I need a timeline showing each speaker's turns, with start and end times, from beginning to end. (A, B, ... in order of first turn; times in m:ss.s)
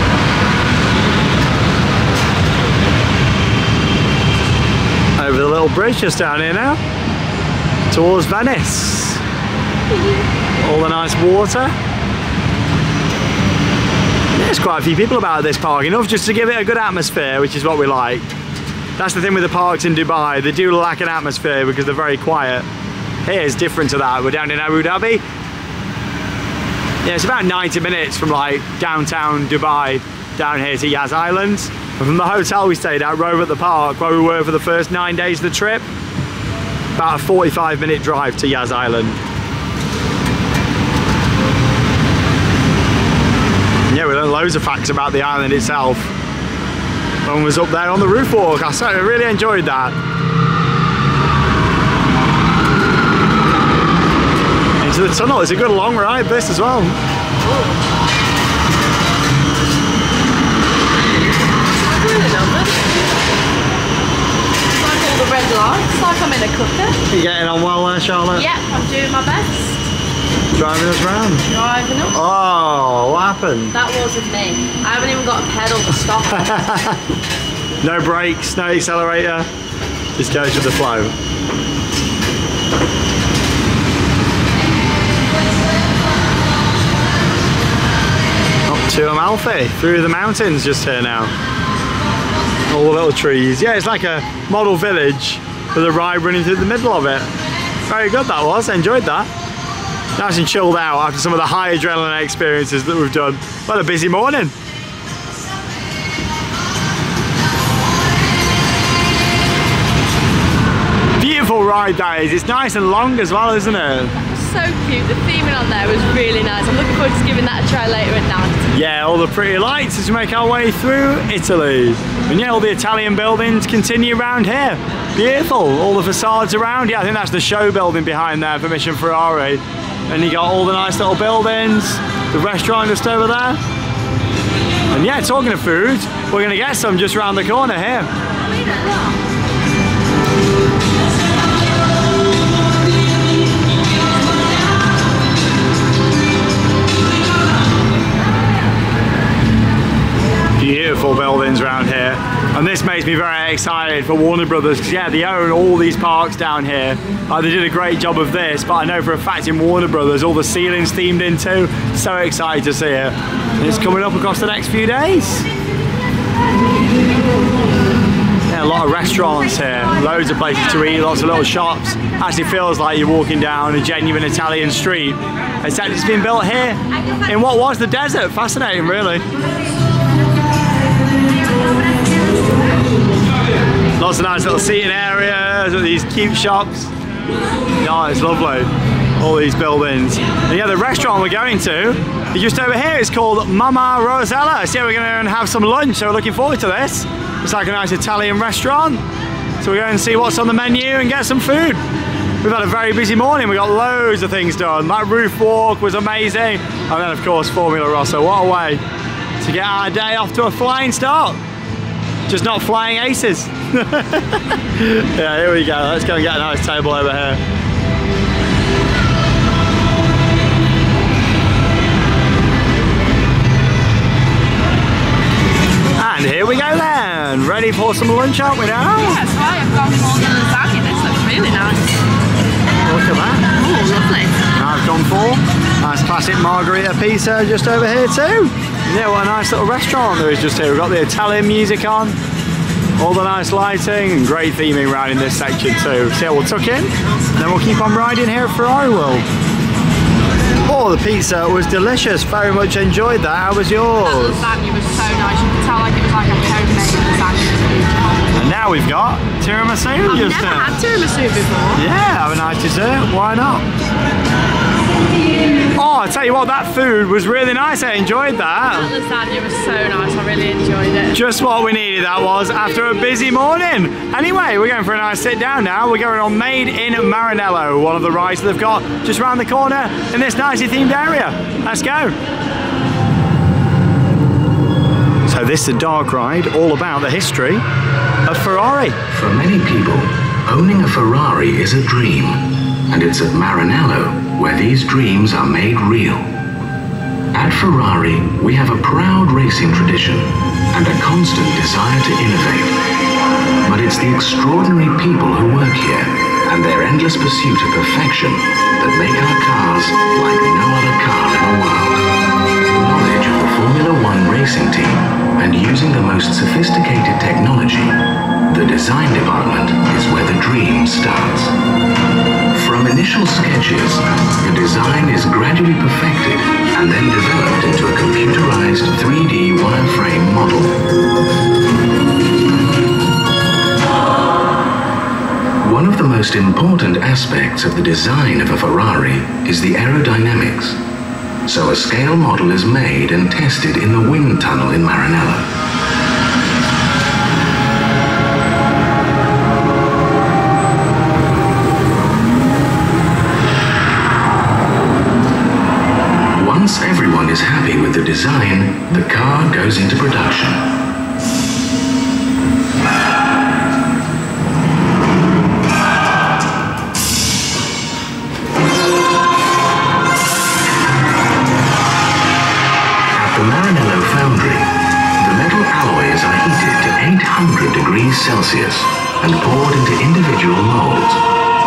0:05.2-0:06.8 A
0:07.9-0:09.2 A
0:09.9-0:10.3 B
0:10.6-0:11.7 A
0:14.3-0:18.3 A
0:19.0-0:22.7 A
0:23.2-0:25.2 A
0:27.0-0:35.9 A
0:37.0-0:39.2 A
0:43.9-0:46.1 A
0:47.3-0:50.0 A
0:54.8-0:57.0 A
1:01.8-1:03.0 B
1:04.8-1:07.1 B
1:07.1-1:08.5 A
1:08.3-1:09.9 B
1:10.6-1:11.4 A
1:11.5-1:12.2 B
1:12.1-1:13.8 A
1:13.7-1:16.6 B
1:16.3-1:17.0 A
1:17.8-1:19.5 A
1:20.2-1:21.1 A
1:28.7-1:31.3 A
1:32.7-1:37.3 A
1:37.9-1:39.3 A
1:40.2-1:44.5 A
1:51.2-1:54.1 A
1:54.3-1:58.7 B
1:58.7-2:13.6 A
2:14.9-2:18.1 A
2:30.6-2:45.5 A
2:48.5-2:59.2 A
3:04.0-3:06.9 A
3:07.8-3:19.0 A
3:19.6-3:21.8 A
3:22.4-3:28.8 A
3:29.4-3:31.4 A
3:32.3-3:37.4 A
3:46.0-3:49.2 A
3:49.0-3:52.0 B
3:52.8-3:53.5 A
3:53.6-3:54.4 B
3:54.6-4:02.2 A
4:03.0-4:09.3 A
4:10.6-4:14.4 A
4:14.0-4:17.8 B
4:18.4-4:20.7 A
4:20.1-4:21.8 B
4:21.8-4:23.6 A
4:25.7-4:28.9 A
4:28.7-4:31.2 B
4:31.1-4:42.2 A
4:45.3-4:47.6 A
4:48.3-4:49.0 A
4:49.1-4:56.3 C
4:57.3-5:02.8 C
5:03.6-5:12.0 C
5:12.7-5:21.5 C
5:22.5-5:30.8 C
5:35.6-5:40.8 C
5:41.5-5:45.5 C
5:56.4-6:00.6 C
6:13.1-6:21.2 C